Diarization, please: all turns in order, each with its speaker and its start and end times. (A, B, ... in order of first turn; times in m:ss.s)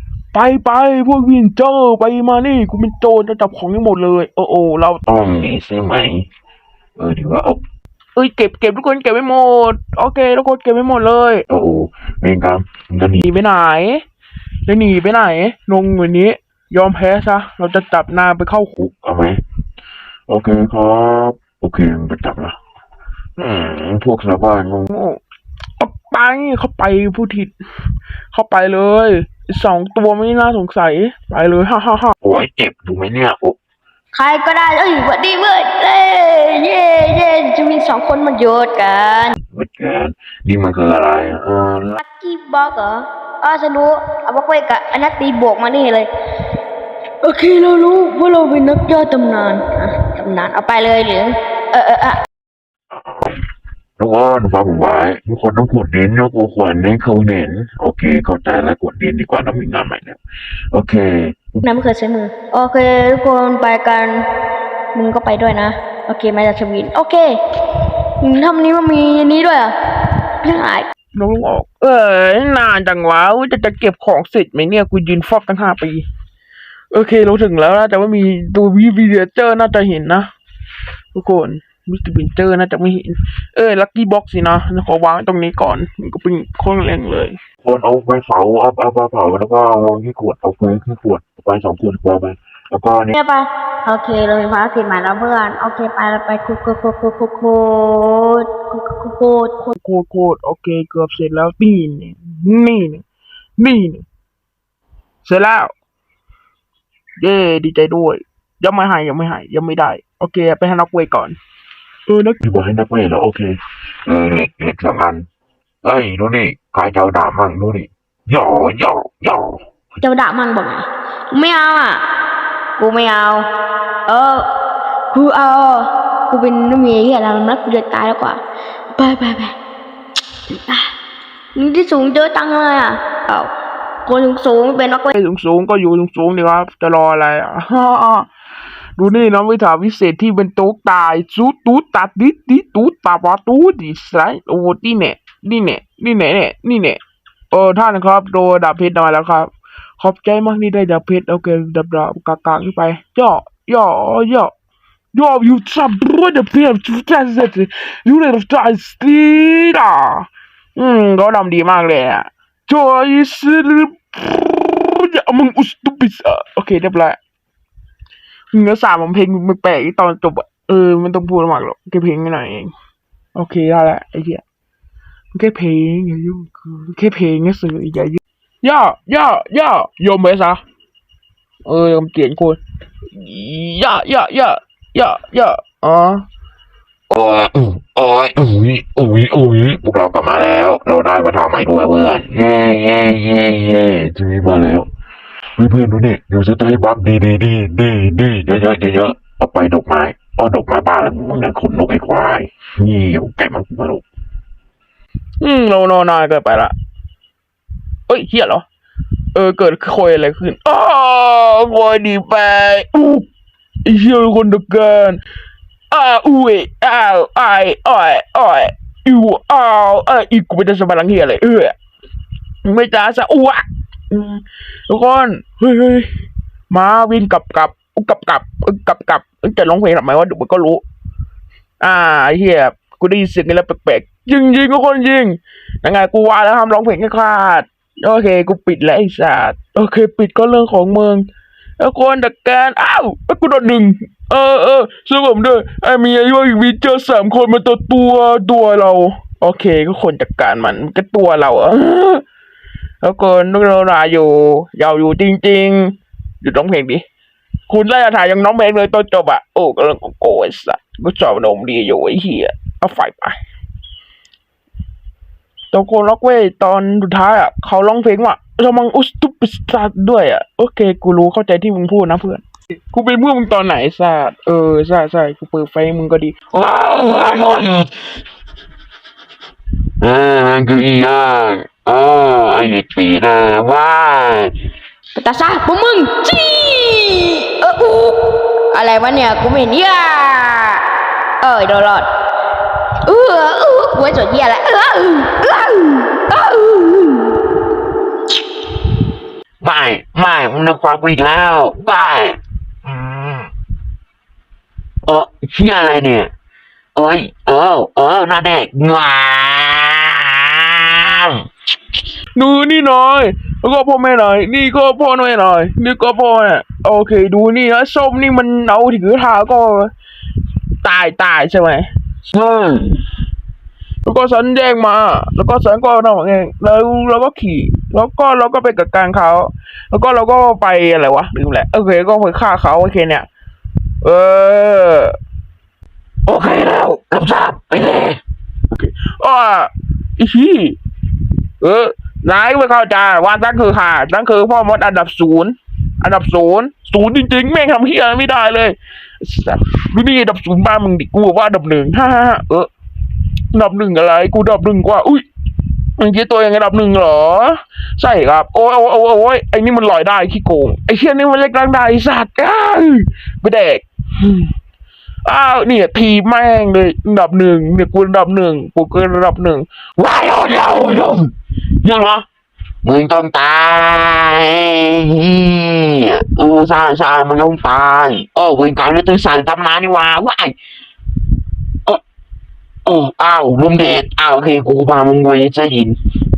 0:00.3-0:05.0 A
0:05.0-0:06.3 B
0:07.0-0:07.6 B
0:08.2-0:11.4 A
0:11.5-0:13.2 B
0:13.2-0:14.0 A
0:14.7-0:18.7 A
0:18.8-0:19.4 B
0:20.3-0:22.6 B
0:23.4-0:24.9 B
0:24.9-0:25.2 A
0:25.8-0:27.5 A
0:28.3-0:32.1 A
0:32.2-0:33.6 B
0:34.1-0:39.4 C
0:39.4-0:42.0 B
0:42.0-0:46.1 C
0:47.2-0:52.2 C
0:52.9-0:53.4 B
0:54.0-1:00.2 B
1:00.7-1:01.6 B
1:01.6-1:04.2 C
1:04.9-1:07.4 C
1:08.2-1:09.7 C
1:10.4-1:10.9 C
1:11.1-1:16.0 A
1:16.9-1:20.3 A
1:21.1-1:27.4 A
1:27.6-1:33.1 B
1:33.1-1:39.7 C
1:39.7-1:43.0 A
1:43.6-1:44.0 A
1:45.2-1:45.7 A
1:47.2-1:51.4 A
1:52.1-1:52.4 A
1:52.4-1:55.2 B
1:55.8-1:59.6 B
2:00.0-2:02.0 C
2:02.8-2:03.5 C
2:04.1-2:04.4 C
2:05.1-2:08.4 C
2:09.0-2:09.6 C
2:10.5-2:10.9 C
2:11.5-2:13.5 C
2:14.0-2:15.1 C
2:15.1-2:18.3 A
2:19.0-2:27.0 A
2:27.5-2:34.5 A
2:35.1-2:47.2 A
2:48.5-2:52.7 A
2:53.3-2:54.4 A
2:55.3-3:00.6 A
3:01.6-3:02.6 A
3:03.1-3:06.2 A
3:07.1-3:14.9 B
3:15.6-3:24.0 B
3:25.4-3:26.7 A
3:28.1-3:28.6 A
3:29.3-3:33.3 A
3:33.8-3:35.2 A
3:35.9-3:41.7 A
3:42.6-3:46.1 A
3:46.7-3:50.8 A
3:51.8-4:01.2 A
4:01.8-4:12.2 A
4:13.0-4:17.0 A
4:17.7-4:23.4 A
4:25.7-4:36.3 A
4:36.5-4:38.1 B
4:40.0-4:44.5 B
4:45.2-4:48.2 C
4:48.7-4:50.8 C
4:51.4-4:52.1 C
4:53.0-4:57.4 C
4:59.6-5:03.5 B
5:05.0-5:06.3 B
5:06.9-5:11.4 B
5:12.3-5:19.9 A
5:20.8-5:21.8 A
5:22.3-5:23.0 B
5:24.0-5:33.3 A
5:34.0-5:35.1 A
5:36.2-5:38.2 B
5:38.7-5:40.8 A
5:41.6-5:52.7 A
5:53.5-5:55.2 A
5:56.0-6:04.5 A
6:05.2-6:09.7 A
6:10.0-6:12.2 B
6:12.8-6:20.6 B
6:22.8-6:26.0 B